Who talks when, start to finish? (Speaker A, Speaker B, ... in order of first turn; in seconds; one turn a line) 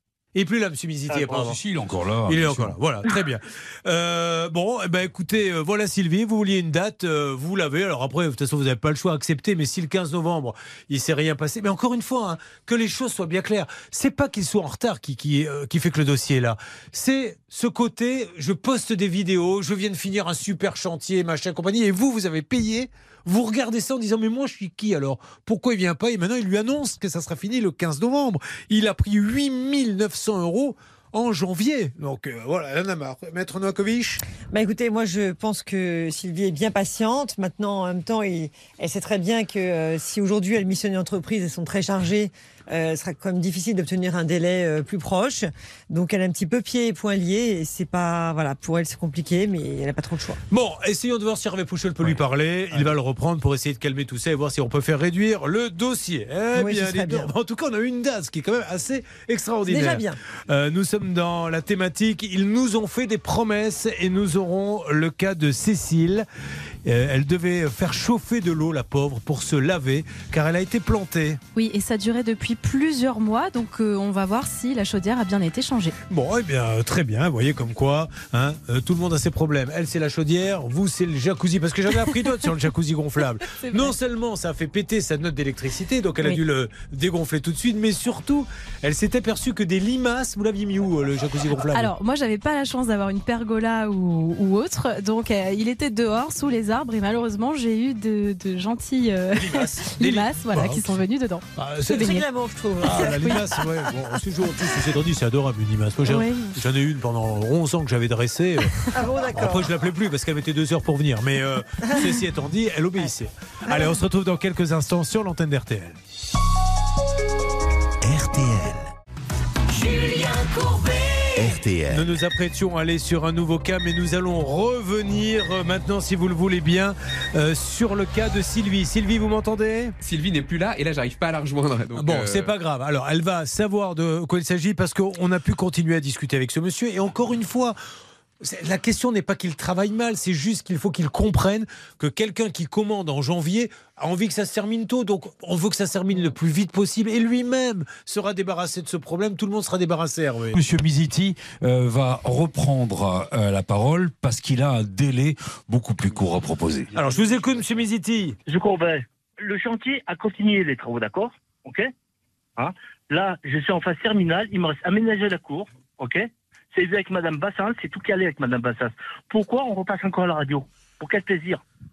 Speaker A: 0.3-1.6
Speaker B: 1.1-1.5
Speaker C: 1.4-2.8
Speaker A: 2.3-34.2
Speaker D: 34.5-50.4
Speaker A: 50.5-66.3
Speaker D: 56.5-57.3
Speaker D: 59.7-60.2
Speaker A: 66.8-71.4
Speaker E: 71.5-76.0
Speaker A: 76.1-91.9
Speaker E: 83.6-83.9
Speaker E: 91.6-102.3
Speaker A: 99.4-101.0
Speaker A: 101.5-102.2
Speaker D: 102.0-103.8
Speaker A: 102.8-116.0
Speaker E: 103.1-103.3
Speaker E: 106.1-106.6
Speaker D: 108.8-109.7
Speaker D: 113.7-114.0
Speaker A: 118.0-118.8
Speaker C: 120.0-122.0
Speaker A: 121.8-130.0
Speaker F: 130.0-132.5
Speaker A: 131.9-137.8
Speaker A: 138.4-150.6
Speaker C: 150.5-157.0
Speaker A: 156.9-158.4
Speaker B: 158.5-161.9
Speaker B: 162.6-171.6